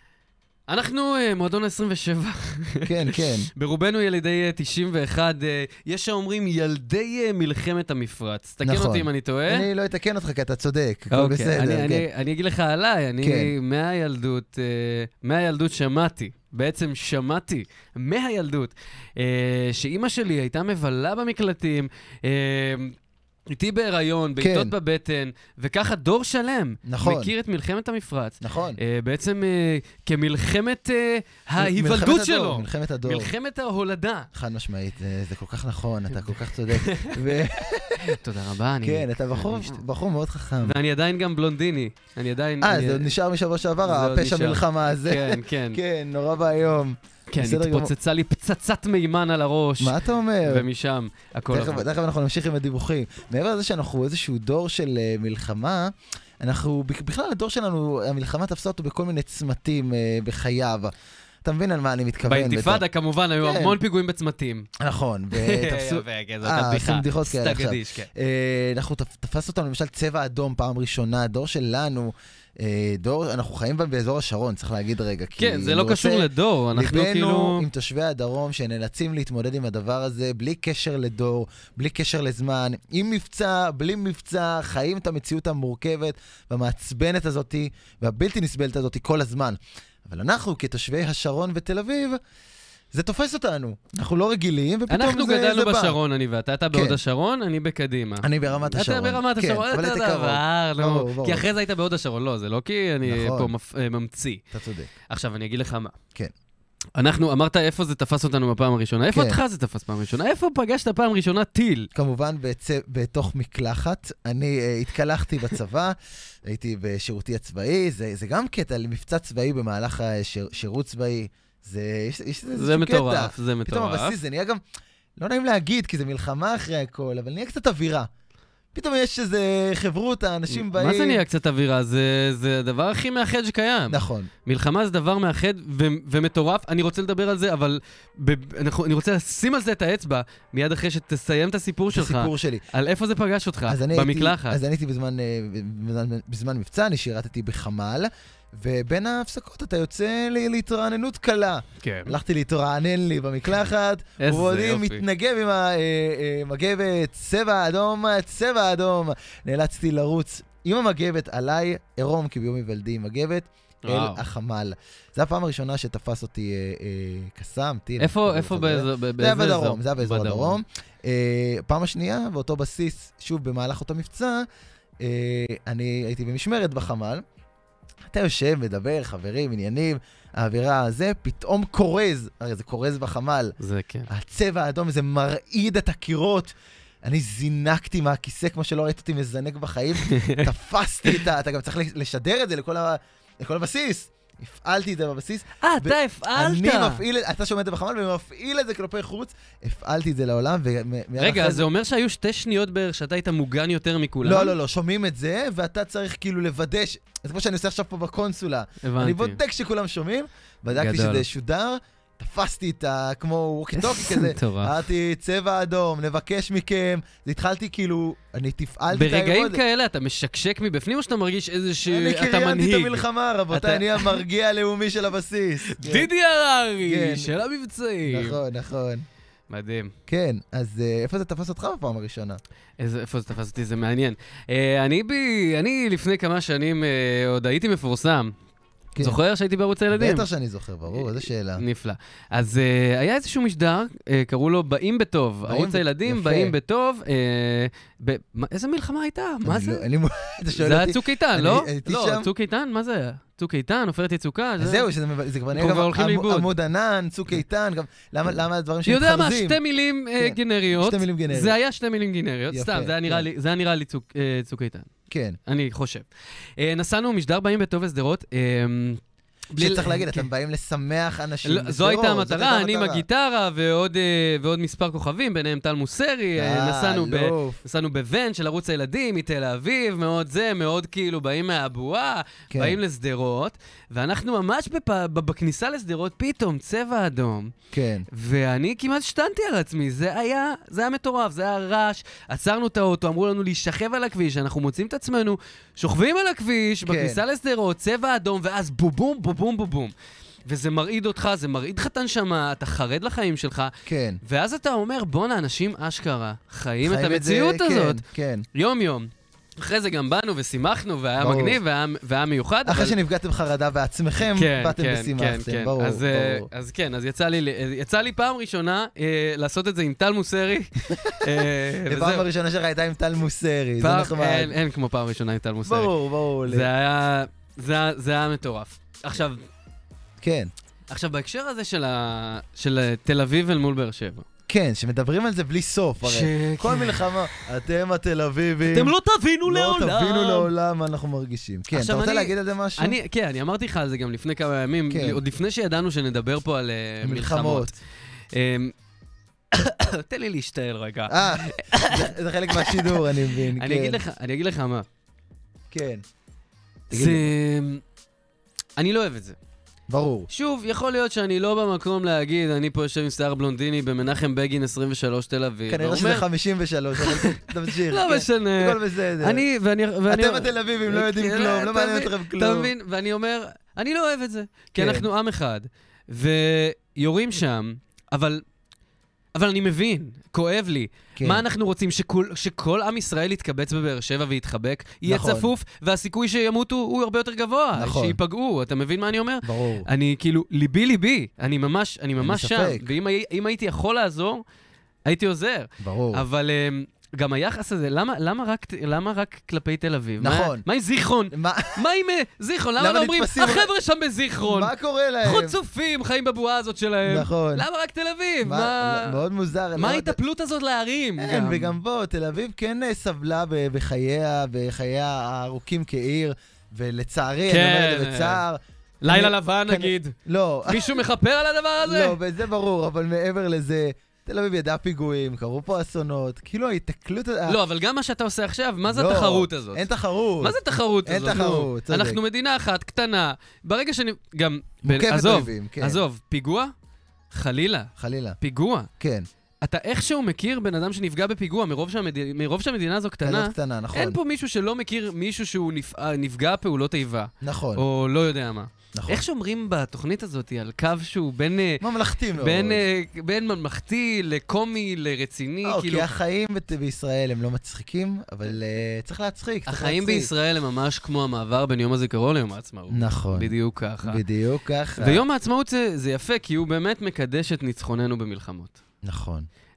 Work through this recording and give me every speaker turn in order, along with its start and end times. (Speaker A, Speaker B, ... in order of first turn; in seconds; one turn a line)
Speaker A: 0.7-9.7
Speaker B: 2.9-3.5
Speaker B: 8.6-12.1
Speaker A: 11.1-23.0
Speaker B: 13.2-13.5
Speaker A: 23.5-34.3
Speaker B: 24.4-24.8
Speaker B: 26.9-27.3
Speaker B: 28.4-28.8
Speaker B: 31.6-33.3
Speaker B: 34.3-38.2
Speaker A: 36.2-39.8
Speaker B: 38.8-40.8
Speaker A: 40.6-43.1
Speaker B: 42.6-47.9
Speaker A: 43.8-45.8
Speaker A: 47.3-51.9
Speaker B: 49.8-50.7
Speaker B: 51.5-60.9
Speaker B: 61.4-62.9
Speaker A: 62.3-64.7
Speaker B: 63.4-63.8
Speaker B: 64.8-92.2
Speaker A: 65.3-68.1
Speaker A: 75.4-77.7
Speaker B: 92.9-96.0
Speaker A: 94.9-104.4
Speaker B: 96.7-97.0
Speaker B: 98.2-101.5
Speaker B: 103.0-103.5
Speaker B: 104.5-104.9
Speaker A: 105.1-106.0
Speaker A: 107.0-111.9
Speaker B: 109.1-109.4
Speaker B: 111.9-124.6
Speaker A: 122.5-124.2
Speaker B: 125.2-128.1
Speaker B: 128.7-131.2
Speaker A: 130.5-144.6
Speaker B: 133.9-134.3
Speaker B: 141.9-142.6
Speaker B: 143.7-174.5
Speaker A: 151.8-152.2
Speaker A: 154.2-155.0
Speaker A: 163.8-164.2
Speaker A: 168.0-170.6
Speaker B: 175.0-177.2
Speaker B: 178.1-183.6
Speaker A: 183.6-184.1
Speaker B: 184.1-201.7
Speaker A: 190.0-190.5
Speaker A: 195.6-197.0
Speaker A: 201.2-204.6
Speaker B: 204.2-219.6
Speaker A: 208.8-209.4
Speaker A: 210.7-211.2
Speaker A: 213.8-214.8
Speaker A: 218.9-224.2
Speaker B: 221.9-226.1
Speaker A: 225.7-228.4
Speaker B: 226.8-227.3
Speaker B: 228.1-229.1
Speaker A: 229.5-229.9
Speaker B: 230.1-232.4
Speaker A: 232.8-238.3
Speaker A: 239.0-240.3
Speaker B: 239.9-241.6
Speaker A: 240.9-249.8
Speaker B: 245.5-246.5
Speaker B: 249.4-252.3
Speaker A: 250.6-254.9
Speaker B: 254.6-259.6
Speaker A: 255.5-256.5
Speaker A: 258.9-264.9
Speaker B: 260.2-261.6
Speaker B: 262.5-263.3
Speaker B: 265.1-265.4
Speaker A: 265.5-266.1
Speaker A: 266.6-270.3
Speaker B: 269.6-273.0
Speaker A: 271.4-287.5
Speaker B: 276.4-277.6
Speaker B: 282.5-282.8
Speaker B: 287.7-288.1
Speaker A: 288.1-299.9
Speaker B: 296.9-297.2
Speaker A: 300.5-308.0
Speaker B: 303.9-304.2
Speaker B: 306.8-308.4
Speaker A: 308.5-313.0
Speaker B: 311.2-311.6
Speaker B: 312.7-316.5
Speaker A: 314.3-322.3
Speaker B: 321.0-321.3
Speaker B: 321.9-324.5
Speaker A: 323.8-325.9
Speaker B: 325.7-326.7
Speaker A: 326.4-329.4
Speaker B: 330.2-330.5
Speaker A: 330.9-334.3
Speaker B: 334.5-338.9
Speaker A: 336.0-337.4
Speaker A: 338.6-340.5
Speaker B: 339.5-343.0
Speaker A: 341.7-347.8
Speaker B: 344.9-345.2
Speaker B: 347.0-347.7
Speaker A: 348.3-348.7
Speaker A: 349.5-354.9
Speaker B: 351.1-354.0
Speaker B: 355.7-356.0
Speaker B: 356.9-357.3
Speaker A: 356.9-357.8
Speaker A: 358.8-359.4
Speaker B: 359.9-360.3
Speaker A: 360.3-366.3
Speaker B: 365.7-369.4
Speaker A: 367.0-378.4
Speaker B: 370.1-372.7
Speaker B: 374.8-375.1
Speaker A: 379.4-394.4
Speaker B: 381.2-381.4
Speaker B: 385.1-385.5
Speaker B: 387.8-388.2
Speaker B: 389.4-389.9
Speaker B: 392.2-392.9
Speaker A: 395.1-404.7
Speaker B: 395.8-396.2
Speaker B: 400.2-400.6
Speaker B: 401.3-401.8
Speaker B: 402.8-403.7
Speaker B: 404.4-405.6
Speaker A: 405.2-409.2
Speaker B: 407.1-407.7
Speaker B: 408.4-410.2
Speaker A: 409.8-411.8
Speaker B: 411.2-421.0
Speaker A: 417.5-418.4
Speaker A: 419.0-420.2
Speaker A: 420.7-422.2
Speaker B: 421.8-427.6
Speaker A: 427.5-429.9
Speaker B: 428.9-432.2
Speaker A: 430.4-436.7
Speaker B: 434.9-436.0
Speaker A: 437.3-438.9
Speaker B: 438.0-438.4
Speaker B: 439.0-439.3
Speaker A: 439.6-456.1
Speaker B: 443.2-444.2
Speaker B: 447.4-447.8
Speaker B: 448.9-449.2
Speaker B: 451.8-452.8
Speaker B: 455.6-460.3
Speaker A: 459.7-464.2
Speaker B: 462.9-463.5
Speaker B: 464.0-465.2
Speaker A: 465.0-468.8
Speaker B: 469.0-469.5